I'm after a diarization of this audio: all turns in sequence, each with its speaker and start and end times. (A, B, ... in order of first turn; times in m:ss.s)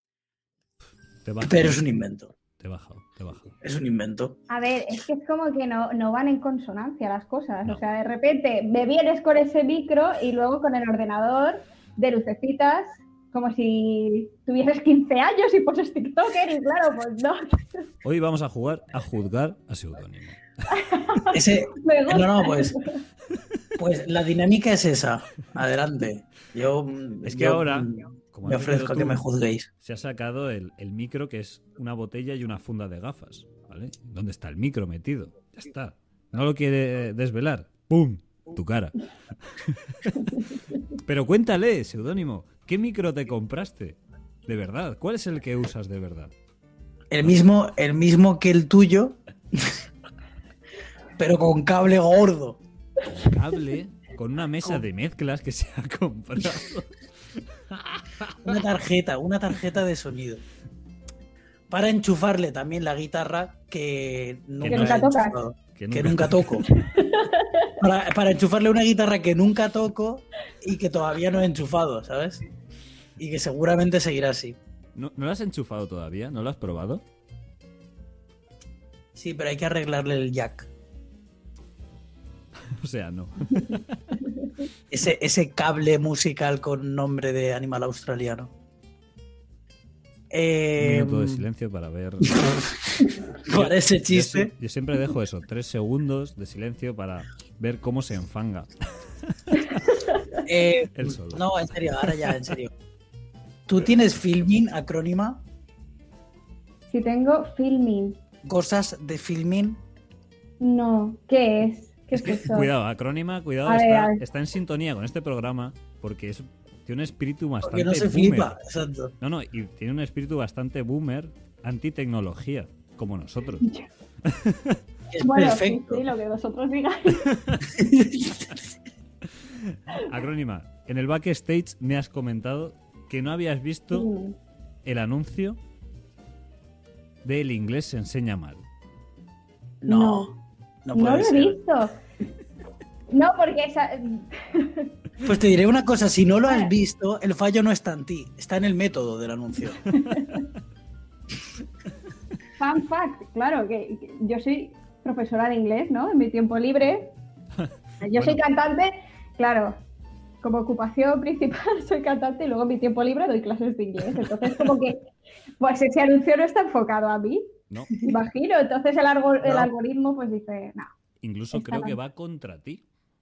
0:01.2-0:01.8 A
0:01.5-0:02.3 B
0:02.6-0:03.6 A
0:03.6-0:04.4 B
0:04.5-0:17.8 C
0:18.0-0:20.4 A
0:20.7-0:23.0 C
0:21.3-0:22.8 B
0:23.8-0:29.7 B
0:27.2-0:29.2 A
0:29.8-0:40.4 A
0:40.9-0:46.3 A
0:47.1-0:49.8 B
0:51.2-0:52.6 B
0:53.0-0:58.5 A
0:58.4-1:00.4 B
1:01.7-1:06.7 B
1:04.6-1:05.1 A
1:04.7-1:05.4 C
1:05.8-1:06.6 A
1:06.6-1:07.8 C
1:07.8-1:12.4 B
1:13.2-1:14.6 B
1:15.0-1:17.0 A
1:19.1-1:20.7 B
1:22.7-1:24.2 A
1:24.9-1:28.5 B
1:30.3-1:31.4 B
1:30.8-1:32.4 A
1:32.2-1:34.5 B
1:33.5-1:39.8 A
1:40.4-1:42.7 B
1:40.9-1:41.4 A
1:43.7-1:45.4 B
1:46.9-1:48.2 C
1:48.4-1:49.8 B
1:50.6-1:52.7 C
1:52.1-1:58.6 A
1:53.6-1:54.2 C
1:57.6-1:59.1 B
1:59.2-2:03.7 A
2:04.2-2:04.8 A
2:05.1-2:06.1 B
2:05.2-2:07.3 C
2:07.2-2:07.6 A
2:07.7-2:08.5 B
2:09.4-2:14.1 A
2:13.9-2:14.4 C
2:14.8-2:15.6 A
2:17.2-2:18.6 A
2:19.8-2:21.6 B
2:19.9-2:20.3 C
2:20.9-2:22.0 C
2:23.1-2:24.9 C
2:25.2-2:30.0 B
2:29.9-2:30.4 C
2:32.6-2:37.1 C
2:38.0-2:39.8 C
2:38.1-2:38.4 A
2:40.4-2:45.1 C
2:44.2-2:44.6 A
2:45.6-2:47.5 C
2:47.7-2:48.0 A
2:48.0-2:50.9 C
2:49.4-2:49.7 B
2:51.2-2:52.8 A
2:51.5-2:52.0 C